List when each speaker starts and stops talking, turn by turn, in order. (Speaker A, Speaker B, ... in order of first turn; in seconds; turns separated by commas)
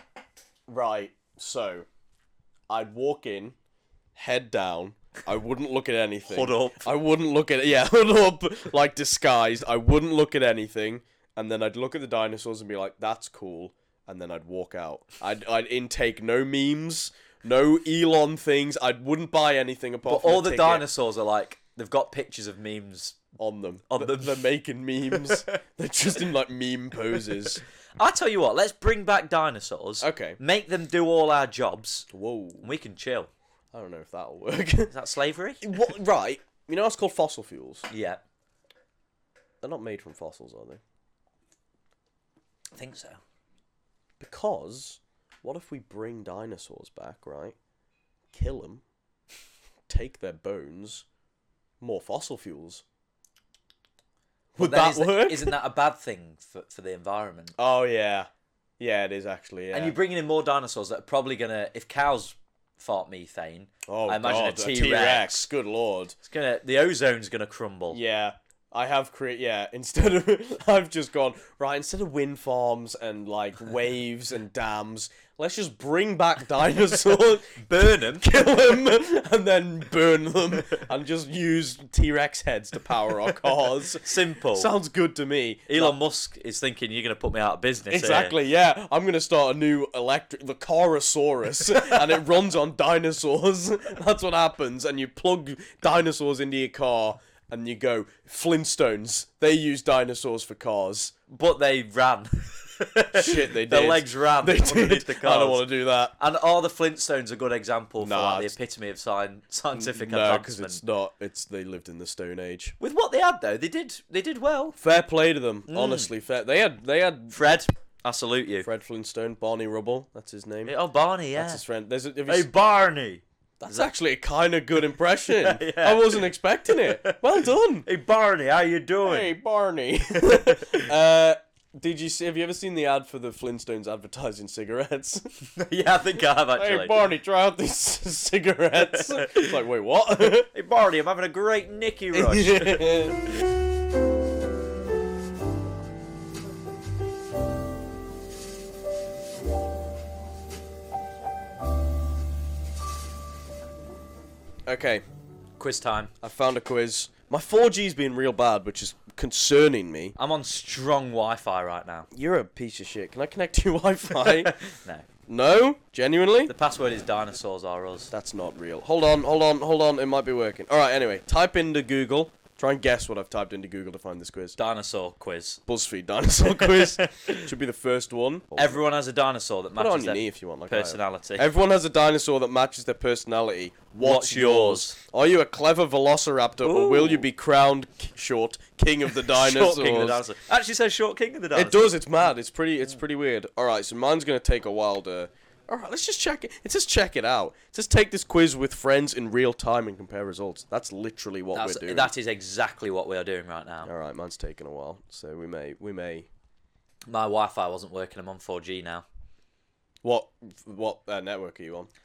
Speaker A: 0.7-1.9, Speaker A: 2.7-3.5, Speaker A: 4.1-20.8, Speaker B: 6.3-6.9, Speaker B: 20.1-23.3, Speaker A: 23.4-27.6, Speaker B: 23.9-24.4, Speaker B: 25.1-25.5, Speaker B: 27.1-32.1, Speaker A: 30.0-30.4, Speaker A: 32.1-32.7, Speaker B: 32.6-33.3, Speaker A: 33.7-34.9, Speaker B: 34.9-35.6, Speaker A: 35.6-37.9, Speaker B: 37.9-38.2, Speaker A: 39.6-40.8, Speaker B: 42.7-43.2, Speaker A: 44.2-47.5, Speaker A: 48.3-48.8, Speaker A: 49.9-51.0, Speaker A: 51.8-52.8, Speaker A: 54.5-55.5, Speaker B: 54.6-57.5, Speaker A: 57.6-60.0, Speaker B: 59.7-65.5, Speaker A: 63.9-66.2, Speaker B: 66.2-68.0, Speaker A: 67.9-86.0, Speaker B: 77.6-78.3, Speaker B: 84.0-84.7, Speaker B: 85.7-88.3, Speaker A: 87.9-101.1, Speaker B: 101.3-105.7, Speaker A: 103.1-106.1, Speaker B: 106.2-110.8, Speaker A: 108.0-108.5, Speaker A: 109.7-112.8, Speaker B: 112.8-114.8, Speaker A: 114.8-117.5, Speaker B: 115.7-116.1, Speaker B: 117.3-118.7, Speaker A: 118.6-120.7, Speaker B: 120.7-121.6, Speaker A: 121.3-122.5, Speaker B: 122.3-123.9, Speaker A: 123.6-127.9, Speaker B: 125.3-129.3, Speaker A: 129.0-135.3, Speaker B: 130.3-130.9, Speaker B: 135.6-136.9, Speaker A: 136.5-140.5, Speaker B: 138.9-139.6, Speaker B: 140.3-143.3, Speaker A: 142.1-143.3, Speaker A: 154.7-155.0, Speaker B: 155.6-156.1, Speaker A: 156.2-160.1, Speaker B: 160.2-162.1, Speaker A: 162.1-164.5, Speaker B: 164.2-165.1, Speaker A: 165.3-166.5, Speaker B: 166.5-168.1, Speaker A: 168.1-174.6, Speaker B: 174.6-175.6, Speaker A: 175.7-178.8, Speaker B: 176.6-177.5, Speaker B: 178.6-181.5, Speaker A: 179.8-190.2, Speaker B: 184.0-184.9, Speaker B: 186.6-187.2, Speaker B: 189.2-192.0, Speaker A: 191.5-202.1, Speaker B: 201.5-203.9, Speaker A: 203.8-206.3, Speaker B: 207.1-209.0, Speaker A: 210.0-211.9